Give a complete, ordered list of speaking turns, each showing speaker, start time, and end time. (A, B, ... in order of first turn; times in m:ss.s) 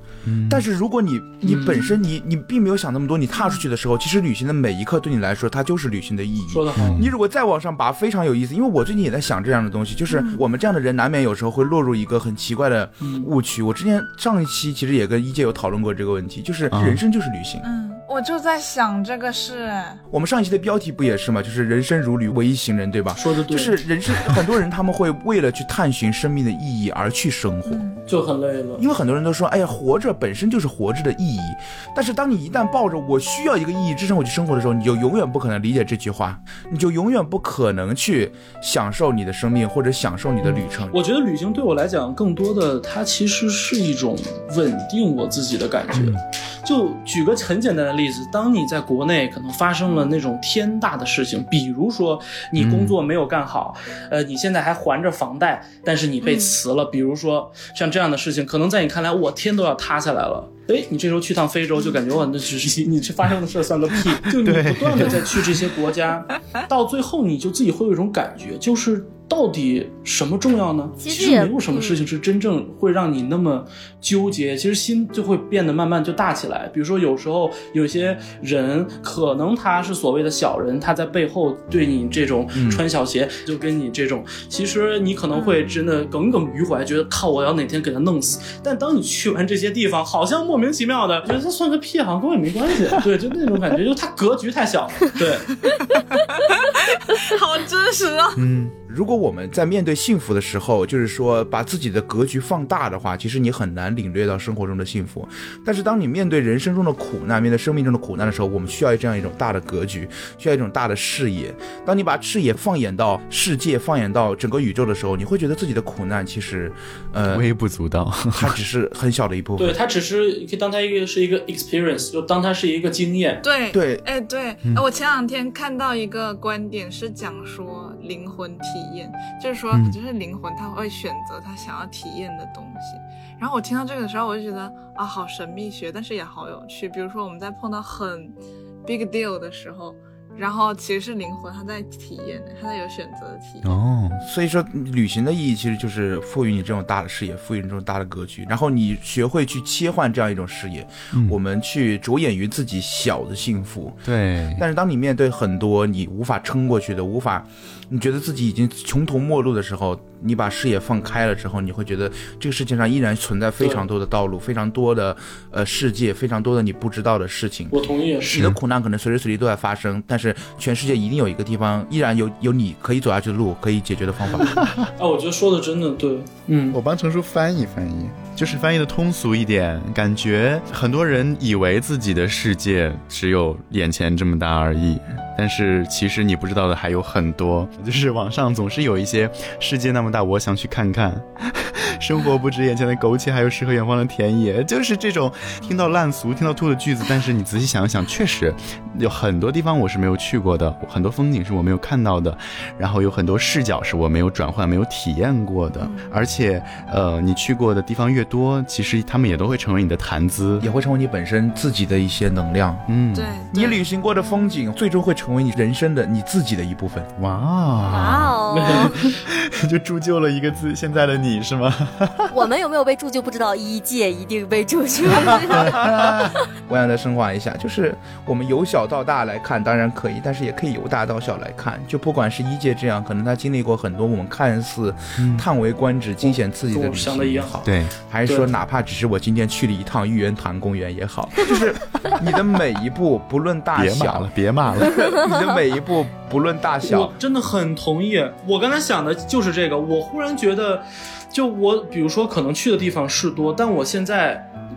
0:00.2-0:00.7 A
0:00.5-0:17.7 B
0:01.4-0:02.0 C
0:03.4-0:03.6 D
0:06.5-0:07.1 C
0:06.8-0:07.1 A
0:10.1-0:10.4 D
0:13.0-0:13.3 C
0:16.7-0:17.0 A
0:17.6-0:20.0 D
0:20.1-0:27.8 B
0:23.1-0:23.8 C
0:27.7-0:28.0 D
0:28.1-0:28.8 C
0:28.8-0:41.0 B
0:40.4-1:35.6 C
0:45.9-0:46.2 A
0:52.6-0:53.0 A
0:56.2-0:56.6 D
1:04.3-1:05.6 A
1:11.0-1:12.0 E
1:22.6-1:22.8 B
1:25.3-1:25.7 D
1:35.6-1:38.5 D
1:38.4-1:38.7 A
1:38.9-1:57.4 B
1:57.3-1:58.6 A
1:58.4-1:59.8 B
1:59.6-2:03.4 C
2:03.4-2:23.8 D
2:03.7-2:04.0 B
2:09.7-2:10.0 A
2:23.6-2:24.2 A
2:24.2-2:54.7 B
2:34.1-2:34.6 A
2:43.6-2:43.9 C
2:47.7-2:48.4 C
2:48.3-2:48.6 A
2:54.4-2:54.9 A
2:55.0-2:56.8 C
2:56.7-3:30.7 A
3:25.8-3:26.1 D
3:30.6-3:32.9 B
3:32.9-3:33.4 A
3:33.1-3:33.8 D
3:33.5-3:37.1 B
3:37.2-3:42.3 A
3:37.9-3:39.0 E
3:38.5-3:39.1 C
3:42.3-3:45.9 E
3:45.1-3:46.3 A
3:45.6-4:07.1 B
3:55.2-3:55.5 A
3:56.2-3:57.6 C
3:57.6-3:57.9 A
3:58.2-3:58.5 C
4:03.8-4:05.1 A
4:06.8-4:14.5 C